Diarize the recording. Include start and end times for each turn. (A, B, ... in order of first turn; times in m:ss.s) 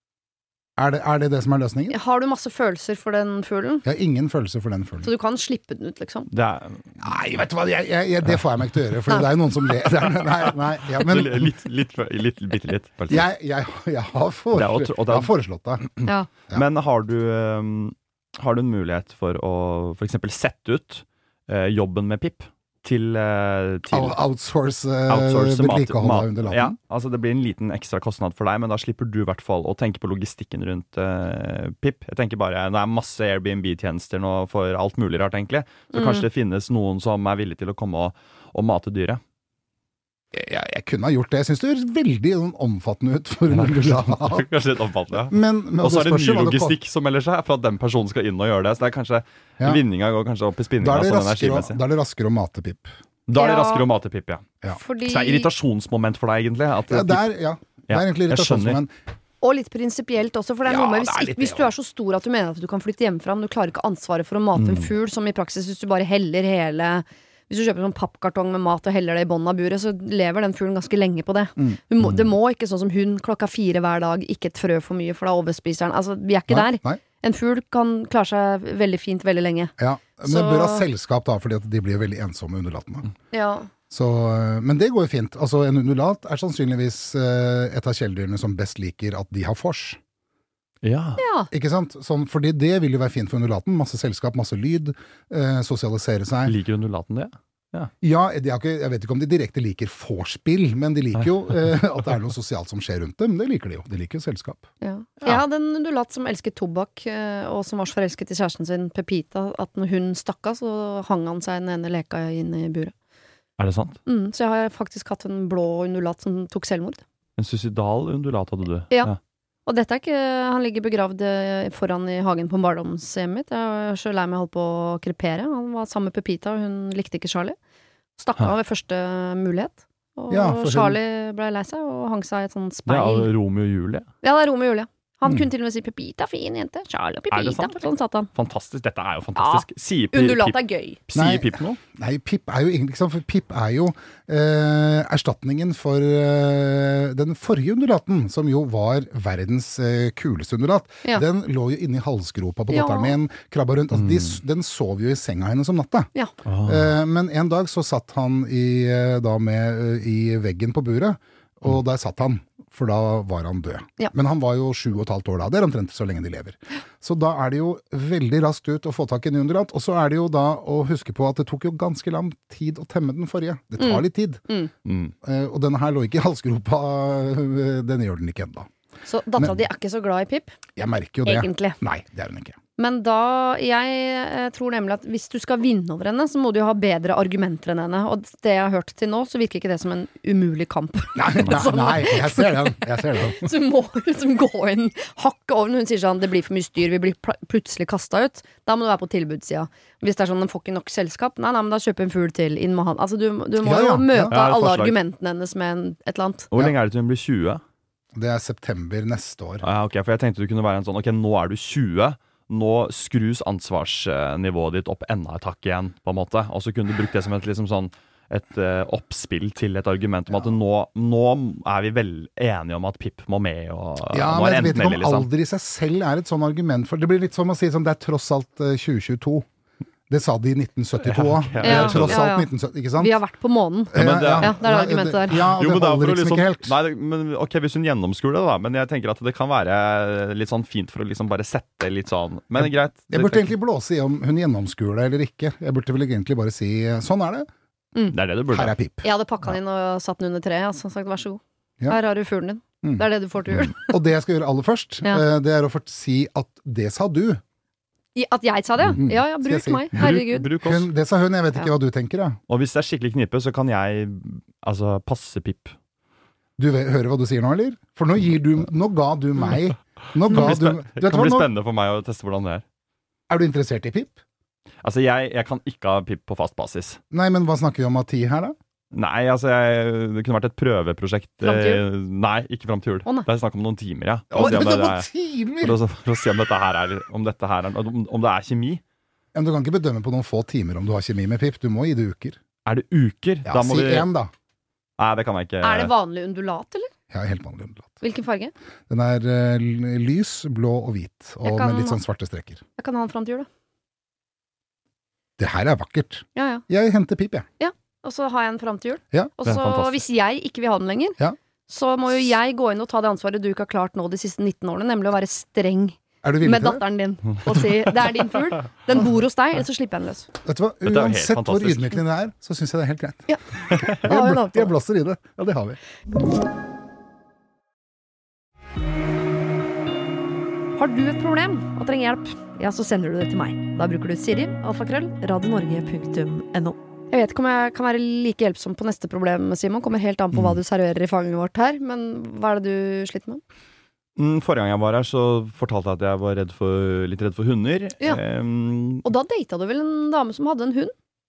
0:00.8-0:02.0 A
0:01.9-0:03.8 B
0:03.8-0:05.1 A
0:05.0-0:06.3 B
0:06.3-0:07.0 C
0:07.0-0:11.5 A
0:10.9-0:13.3 C
0:13.1-0:15.9 A
0:14.5-0:15.3 C
0:15.9-0:24.2 C
0:23.9-0:26.8 A
0:25.1-0:39.2 C
0:35.9-0:36.2 B
0:40.3-0:44.4 A
0:43.5-0:51.8 C
0:45.3-0:46.7 A
0:50.8-0:52.9 A
0:53.3-0:54.5 C
0:53.3-0:53.8 B
0:54.7-0:55.5 B
0:55.0-0:57.2 C
0:56.9-0:58.9 A
0:57.9-0:58.8 C
0:59.4-1:19.7 B
1:00.6-1:01.7 A
1:04.6-1:04.9 C
1:16.5-1:17.0 A
1:19.8-1:23.0 A
1:20.2-1:20.8 B
1:23.3-1:23.7 B
1:23.9-1:30.0 A
1:30.8-1:31.2 C
1:31.2-1:31.5 B
1:31.5-1:36.6 A
1:36.4-1:37.9 C
1:38.0-1:44.6 A
1:44.8-1:52.9 B
1:53.6-1:54.0 C
1:54.0-1:57.0 B
1:57.4-1:59.2 C
1:59.6-2:07.6 B
2:08.2-2:13.3 B
2:10.3-2:11.0 A
2:12.9-2:14.1 C
2:14.2-2:18.3 B
2:17.3-2:17.8 C
2:18.3-2:20.6 C
2:19.4-2:21.0 B
2:21.1-2:21.8 C
2:21.1-2:36.1 A
2:32.7-2:33.1 B
2:33.9-2:34.4 C
2:36.4-2:36.9 C
2:36.6-2:54.4 A
2:53.8-2:54.7 B
2:54.8-2:55.1 C
2:55.2-2:58.7 A
2:59.0-3:00.5 B
3:00.8-3:02.6 A
3:01.2-3:01.8 B
3:02.8-3:26.5 B
3:11.1-3:13.5 A
3:23.6-3:24.3 A
3:24.3-3:24.9 C
3:26.5-3:27.6 C
3:28.1-3:29.6 A
3:29.6-3:45.3 C
3:44.1-3:49.5 A
3:50.1-3:53.1 A
3:51.0-3:52.2 C
3:51.6-3:55.4 B
3:53.9-3:56.7 A
3:54.0-3:54.6 C
3:55.3-4:03.5 C
4:02.6-4:07.5 A
4:08.1-4:08.7 C
4:08.5-4:09.0 A
4:09.0-4:13.9 B
4:12.8-4:17.4 A
4:18.1-4:20.5 B
4:19.0-4:20.1 A
4:19.9-4:20.9 C
4:20.6-4:22.4 A
4:22.5-4:25.8 C
4:26.6-4:31.5 A
4:30.3-4:32.6 C
4:33.3-4:34.2 A
4:34.8-4:37.0 C
4:37.1-4:38.6 A
4:38.9-4:45.1 C
4:41.4-4:41.8 B
4:44.3-4:45.8 A
4:45.6-4:48.8 C
4:49.3-4:52.4 A
4:52.6-4:54.1 C
4:53.4-4:54.3 A
4:55.0-4:55.9 C
4:55.6-4:56.9 B
4:57.1-4:58.0 A
4:58.0-4:58.5 B
4:58.9-5:02.6 A
5:01.4-5:02.0 B
5:02.8-5:03.5 B
5:05.4-5:07.4 A
5:06.3-5:06.6 B
5:07.6-5:20.3 B
5:09.4-5:10.0 C
5:16.2-5:16.8 A
5:20.4-5:23.3 A
5:20.8-5:22.0 C
5:23.3-5:24.7 B
5:23.7-5:24.0 C
5:23.9-5:25.8 A
5:30.8-5:43.4 B
5:40.3-5:40.6 C
5:44.2-5:49.0 C
5:49.0-5:50.9 B